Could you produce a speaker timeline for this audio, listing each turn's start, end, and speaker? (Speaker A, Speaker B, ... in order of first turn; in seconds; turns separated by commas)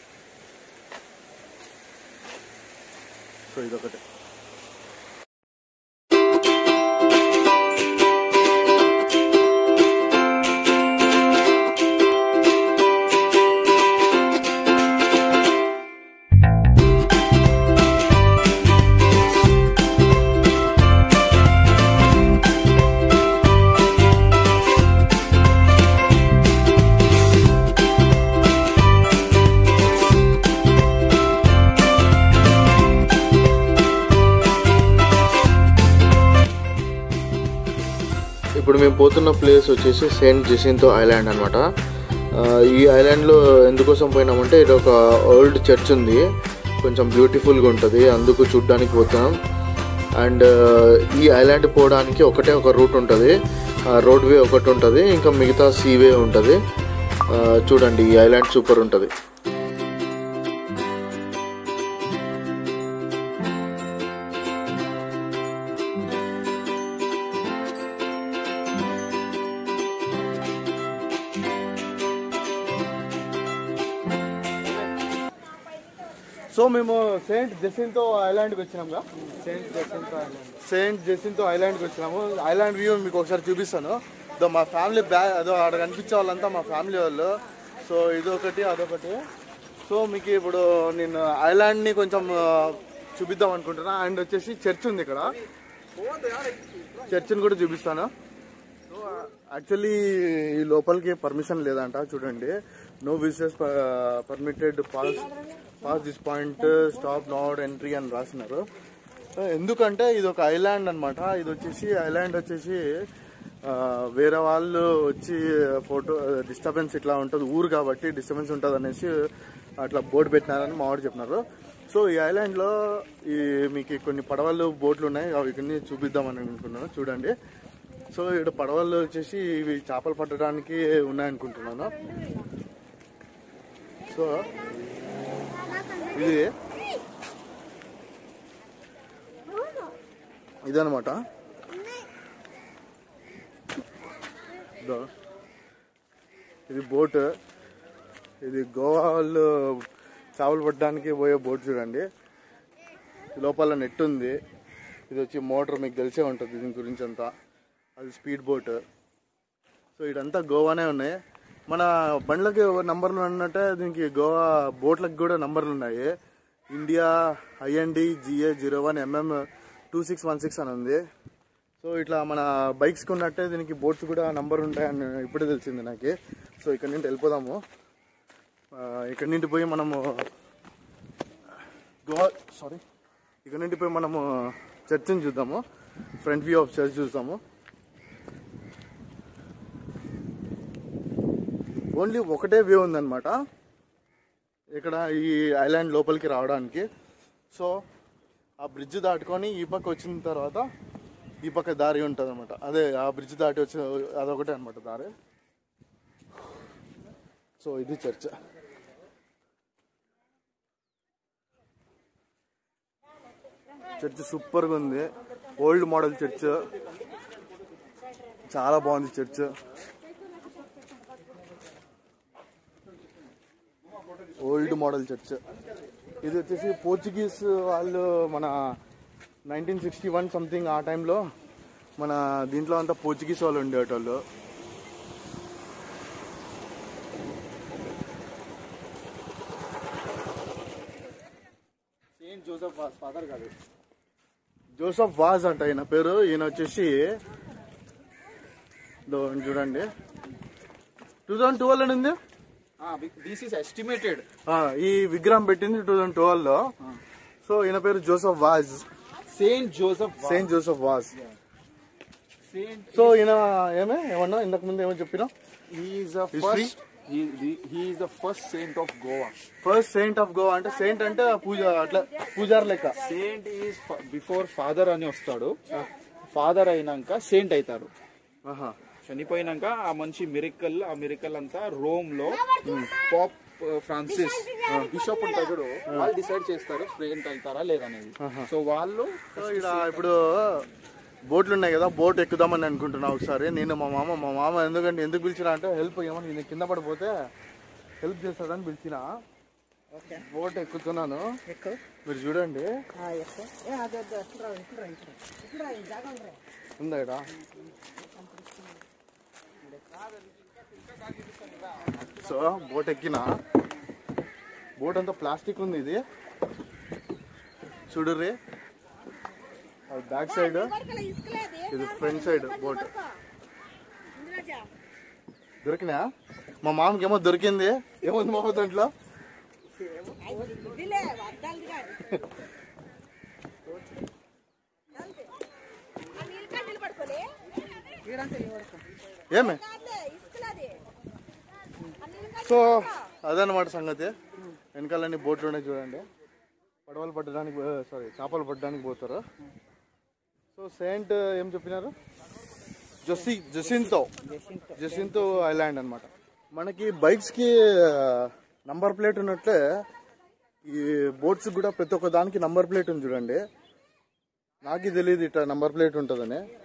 Speaker A: 3.5-4.0, Speaker A: 38.6-41.7, Speaker A: 42.3-46.2, Speaker A: 46.8-49.4, Speaker A: 50.2-53.4, Speaker A: 53.9-56.6, Speaker A: 57.3-59.1, Speaker A: 76.5-79.0, Speaker B: 79.3-80.5, Speaker A: 80.6-89.2, Speaker A: 89.8-95.3, Speaker A: 97.0-98.1, Speaker A: 98.9-108.6, Speaker A: 109.3-112.8, Speaker A: 113.6-119.1, Speaker A: 119.8-127.3, Speaker A: 128.1-131.9, Speaker A: 134.1-134.5, Speaker A: 136.1-136.5, Speaker A: 140.6-141.2, Speaker A: 144.8-145.1, Speaker A: 146.7-147.3, Speaker A: 148.4-152.1, Speaker A: 153.3-154.3, Speaker A: 155.1-157.3, Speaker A: 157.9-158.8, Speaker A: 160.0-166.1, Speaker A: 166.7-171.0, Speaker A: 171.8-177.6, Speaker A: 178.7-180.3, Speaker A: 182.0-182.8, Speaker A: 183.4-185.6, Speaker A: 186.2-187.4, Speaker A: 191.9-193.3, Speaker A: 194.8-196.9, Speaker A: 197.5-197.8, Speaker A: 198.6-200.7, Speaker A: 201.4-205.1, Speaker A: 207.6-208.3, Speaker A: 214.0-216.6, Speaker A: 218.5-219.5, Speaker A: 224.4-225.4, Speaker A: 226.2-228.5, Speaker A: 229.5-231.2, Speaker A: 232.0-234.2, Speaker B: 242.2-243.5, Speaker A: 244.7-247.1, Speaker A: 249.1-249.9, Speaker A: 251.3-252.2, Speaker B: 252.8-254.2, Speaker A: 254.4-256.7, Speaker A: 257.4-258.9, Speaker B: 259.3-260.5, Speaker A: 260.2-261.1, Speaker B: 262.5-263.2, Speaker A: 262.9-265.3, Speaker B: 265.7-269.4, Speaker A: 266.3-266.7, Speaker A: 269.6-272.9, Speaker B: 273.0-275.6, Speaker B: 276.3-277.9, Speaker A: 278.4-278.8, Speaker B: 279.0-290.1, Speaker A: 282.6-282.9, Speaker A: 288.2-288.5, Speaker A: 289.3-290.6, Speaker A: 291.3-297.1, Speaker A: 298.0-299.1, Speaker A: 300.1-301.3, Speaker A: 302.0-302.7, Speaker B: 303.1-305.1, Speaker A: 306.8-307.2, Speaker A: 312.1-313.3, Speaker A: 314.8-316.0, Speaker A: 317.9-318.4, Speaker A: 319.9-320.7, Speaker C: 320.3-323.2, Speaker A: 321.7-322.9, Speaker C: 324.1-324.7, Speaker A: 325.6-326.1, Speaker A: 326.6-328.9, Speaker C: 330.1-332.2, Speaker C: 334.9-335.3, Speaker C: 336.1-337.3, Speaker A: 339.3-339.6, Speaker C: 339.6-340.8, Speaker A: 342.3-344.1, Speaker A: 344.7-346.1, Speaker A: 346.9-349.2, Speaker A: 350.5-351.9, Speaker A: 353.0-354.1, Speaker A: 354.7-359.8, Speaker A: 360.6-363.4, Speaker A: 364.6-366.4